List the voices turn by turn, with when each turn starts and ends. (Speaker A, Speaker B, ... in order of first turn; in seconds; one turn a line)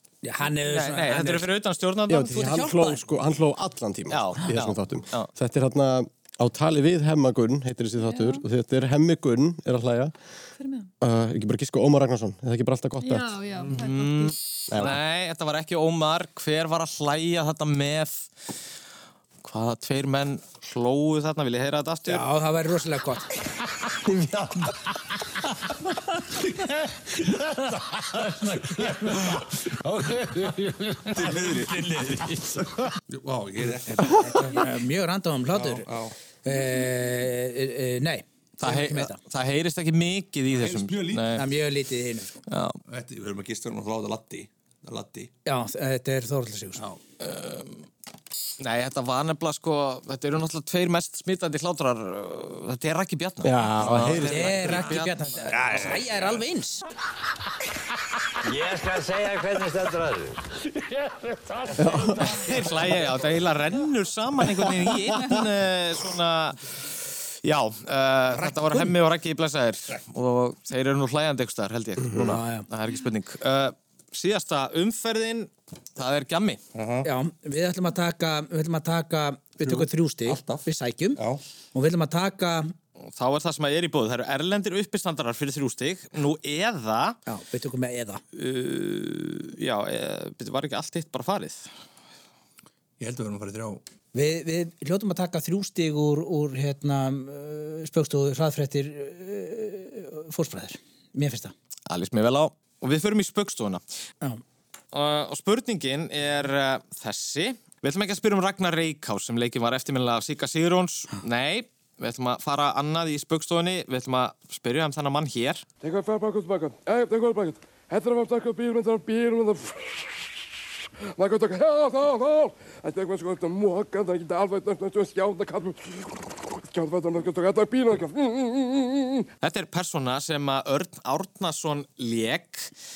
Speaker A: 0.2-1.5
Speaker B: 0.7-2.6
Speaker C: 2.1-10.1
Speaker A: 2.3-3.0
Speaker B: 4.1-5.3
Speaker D: 8.0-8.4
Speaker D: 10.6-10.9
Speaker C: 11.0-13.3
Speaker D: 13.0-14.4
Speaker B: 13.7-18.3
Speaker C: 14.7-15.0
Speaker B: 19.4-22.2
Speaker A: 22.1-23.3
Speaker E: 31.1-34.6
Speaker A: 33.9-35.9
Speaker E: 35.5-36.1
Speaker A: 36.4-39.2
Speaker B: 38.6-41.5
Speaker E: 40.5-41.5
Speaker A: 41.3-42.4
Speaker B: 42.5-42.8
Speaker E: 42.9-45.3
Speaker A: 45.5-46.8
Speaker B: 47.2-47.9
Speaker B: 48.6-55.9
Speaker C: 53.4-54.6
Speaker A: 53.8-56.9
Speaker F: 58.4-60.4
Speaker C: 61.8-62.4
Speaker B: 62.3-66.7
Speaker B: 67.4-76.6
Speaker E: 68.4-68.9
Speaker A: 72.2-72.7
Speaker E: 76.7-77.1
Speaker A: 77.0-81.2
Speaker E: 79.6-81.4
Speaker A: 81.7-82.7
Speaker B: 83.1-87.2
Speaker A: 87.3-88.2
Speaker B: 88.3-91.7
Speaker E: 93.0-93.8
Speaker A: 94.1-101.5
Speaker B: 101.9-103.8
Speaker B: 104.9-115.7
Speaker G: 115.8-120.1
Speaker G: 121.2-129.3
Speaker B: 129.4-132.7